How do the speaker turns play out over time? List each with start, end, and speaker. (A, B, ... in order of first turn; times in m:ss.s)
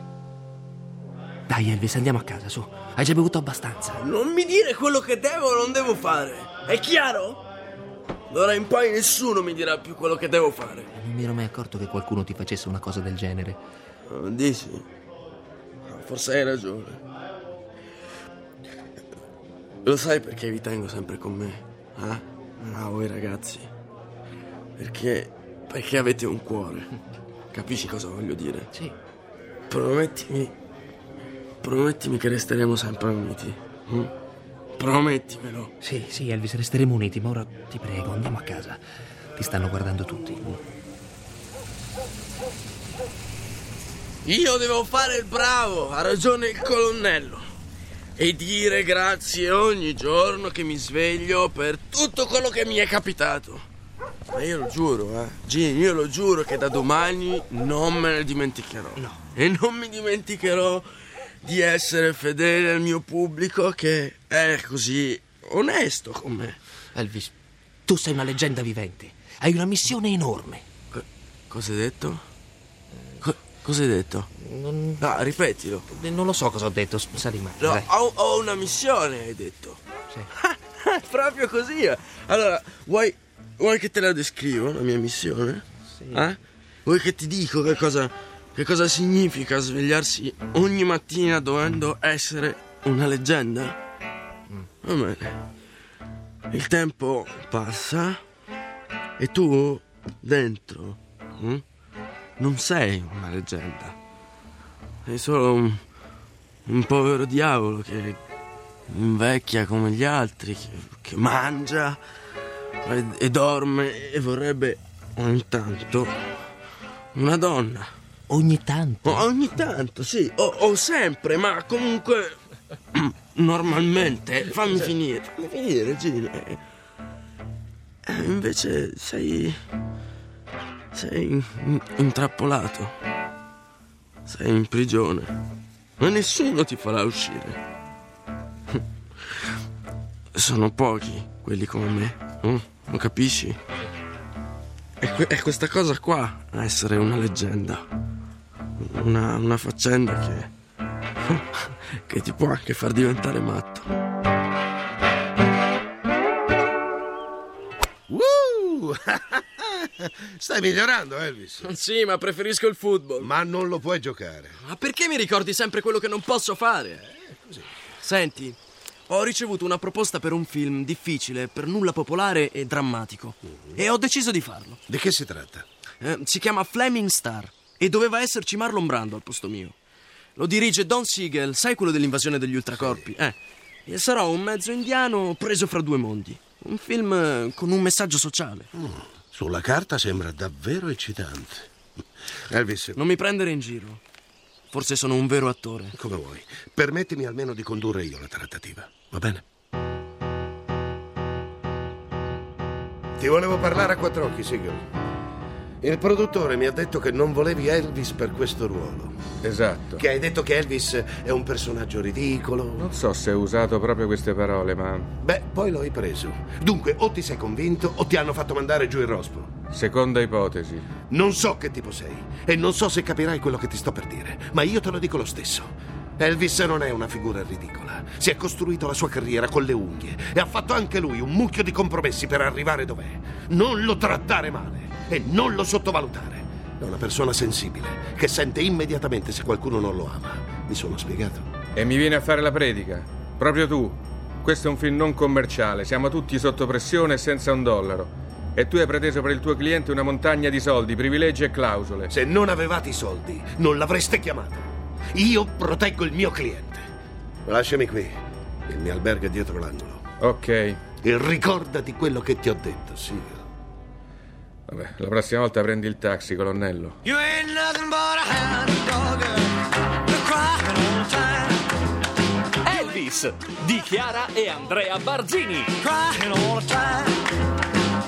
0:01.5-0:04.0 A
0:04.0-0:07.4 B
0:08.3-0:10.9 B
0:11.0-0:13.6 A
0:14.0-0:14.9 B
0:15.9-0:17.0 B
0:19.8-0:23.7 B
0:24.8-0:26.9 B
0:27.5-0:28.7 B
0:29.7-0:30.5 B
0:31.6-0:34.1 B
0:34.8-0:35.7 B
0:35.8-0:38.8 A
0:39.4-0:40.6 A
0:44.2-0:47.4 B
0:48.2-0:53.6 B
0:54.3-1:00.9 B
1:01.4-1:06.6 B
1:06.9-1:07.3 A
1:07.9-1:10.6 A
1:10.9-1:12.2 B
1:13.2-1:14.3 B
1:14.4-1:15.0 A
1:15.0-1:15.8 B
1:15.9-1:17.9 A
1:17.6-1:19.8 B
1:20.3-1:33.8 B
1:34.8-1:35.4 B
1:36.5-1:38.2 B
1:39.2-1:41.6 B
1:42.4-1:44.0 B
1:45.0-1:45.8 B
1:46.6-1:48.2 B
1:48.9-1:52.0 B
1:52.8-1:56.1 B
1:57.1-1:57.9 B
1:58.3-1:59.3 A
1:59.0-2:02.4 B
2:02.9-2:06.6 B
2:08.0-2:09.6 B
2:10.9-2:12.9 B
2:14.2-2:15.4 B
2:16.0-2:17.6 B
2:20.3-2:23.6 B
2:25.0-2:27.8 B
2:28.8-2:30.5 B
2:31.2-2:33.9 B
2:38.1-2:41.7 C
2:41.6-2:43.3 B
2:43.2-2:44.6 C
2:44.6-2:47.0 B
2:47.0-2:47.7 C
2:48.0-2:48.6 B
2:49.1-2:54.8 B
2:53.5-2:53.8 C
2:54.9-2:55.6 C
2:56.0-2:59.8 B
3:00.4-3:08.7 B
3:02.8-3:03.1 C
3:08.7-3:11.7 C
3:12.5-3:13.0 C
3:12.9-3:14.0 B
3:14.7-3:15.9 B
3:15.9-3:19.4 C
3:23.2-3:24.8 C
3:25.8-3:29.3 C
3:29.4-3:30.0 D
3:30.0-3:32.9 C
3:32.8-3:35.1 D
3:35.2-3:39.5 C
3:39.7-3:40.9 D
3:41.1-4:01.5 C
4:01.8-4:12.1 D
4:12.1-4:16.8 C
4:17.4-4:20.0 C
4:20.2-4:20.8 D
4:21.0-4:23.4 C
4:24.7-4:27.0 D
4:27.0-4:29.5 E
4:30.0-4:31.7 E
4:32.6-4:35.7 F
4:35.8-4:37.3 E